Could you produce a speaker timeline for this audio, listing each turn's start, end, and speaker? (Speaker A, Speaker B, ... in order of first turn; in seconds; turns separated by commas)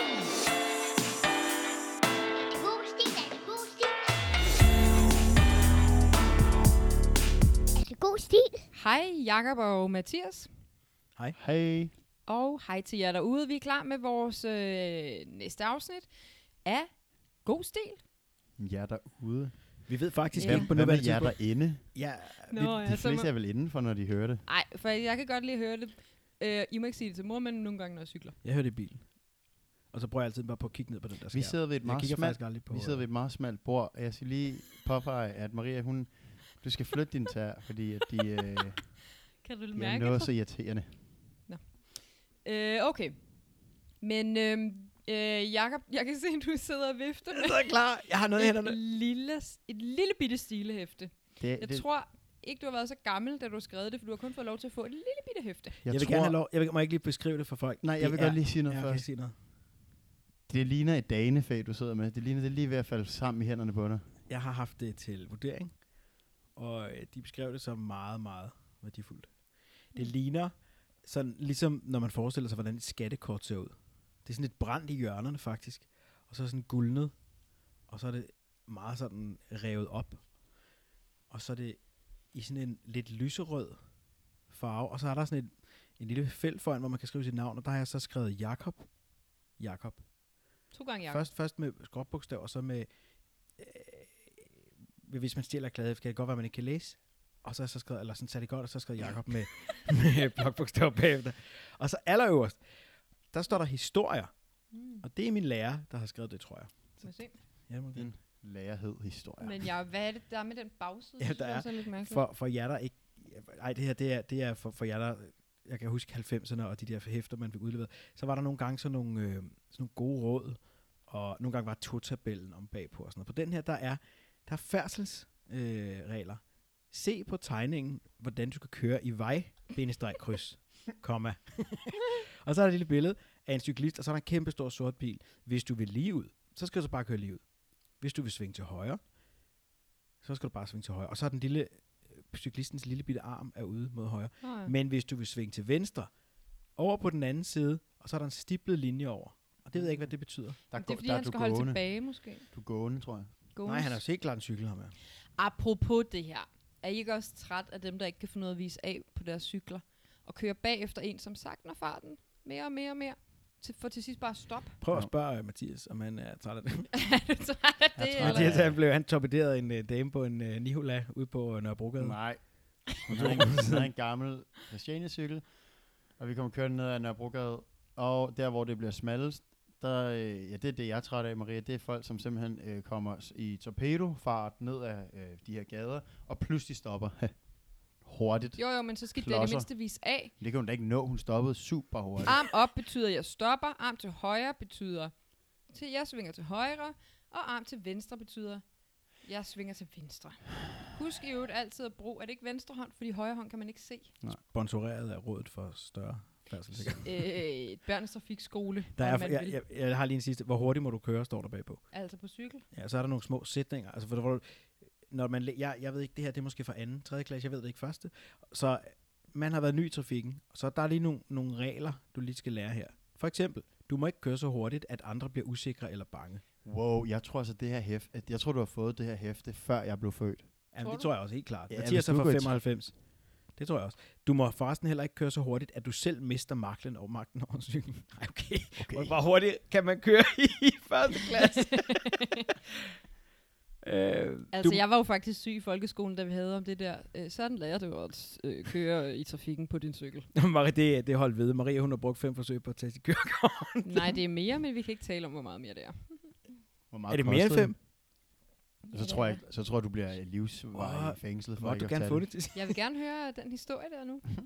Speaker A: 2.5-4.1, Speaker A: 7.8-8.7, Speaker B: 8.7-10.5, Speaker C: 11.3-11.9, Speaker B: 12.3-16.1, Speaker B: 16.6-18.0, Speaker C: 18.6-22.0, Speaker D: 19.9-22.8, Speaker B: 20.4-20.7, Speaker B: 22.5-23.3, Speaker C: 22.6-24.4, Speaker B: 24.5-28.4, Speaker D: 28.4-33.0, Speaker C: 31.3-39.1, Speaker B: 39.4-40.3, Speaker C: 39.8-41.0, Speaker B: 41.5-43.3, Speaker B: 44.0-47.8, Speaker D: 47.3-48.8, Speaker B: 48.4-55.8, Speaker C: 51.4-51.9, Speaker C: 55.8-56.4, Speaker D: 55.9-59.3, Speaker C: 57.8-59.1, Speaker C: 60.5-64.1, Speaker D: 64.3-77.1, Speaker D: 77.9-80.2, Speaker D: 81.3-83.8, Speaker D: 84.5-88.9, Speaker D: 89.5-90.0, Speaker B: 90.7-91.3, Speaker D: 91.1-92.9, Speaker D: 93.5-102.6, Speaker D: 103.3-104.3, Speaker B: 104.7-105.0, Speaker D: 105.0-107.2, Speaker B: 107.0-107.3, Speaker D: 107.7-108.1, Speaker C: 107.9-109.6, Speaker B: 109.4-112.2, Speaker D: 111.2-139.0, Speaker D: 140.2-146.1, Speaker B: 144.4-144.7, Speaker D: 146.8-150.6, Speaker C: 149.7-153.3, Speaker B: 150.8-152.5, Speaker B: 153.6-154.0, Speaker D: 153.7-154.9, Speaker B: 155.4-164.8, Speaker D: 164.8-167.0, Speaker B: 166.9-168.6, Speaker C: 168.0-168.8, Speaker D: 168.2-173.9, Speaker C: 172.0-175.4, Speaker C: 176.2-187.4, Speaker C: 188.0-189.7, Speaker B: 188.6-190.3, Speaker C: 190.4-192.4, Speaker B: 192.3-204.1, Speaker D: 204.4-207.2, Speaker B: 207.0-209.6, Speaker D: 209.0-211.9, Speaker B: 211.9-212.7, Speaker D: 212.7-226.4, Speaker C: 226.7-230.5, Speaker D: 230.7-242.3, Speaker B: 230.8-231.1, Speaker C: 231.7-232.6, Speaker C: 238.8-239.2, Speaker B: 241.3-242.1, Speaker D: 243.8-244.8, Speaker B: 244.5-250.3, Speaker D: 250.3-254.2, Speaker B: 253.8-256.4, Speaker C: 256.9-257.8, Speaker D: 257.1-257.8, Speaker B: 258.9-259.4, Speaker C: 258.9-262.3, Speaker D: 260.7-262.8, Speaker B: 262.6-264.3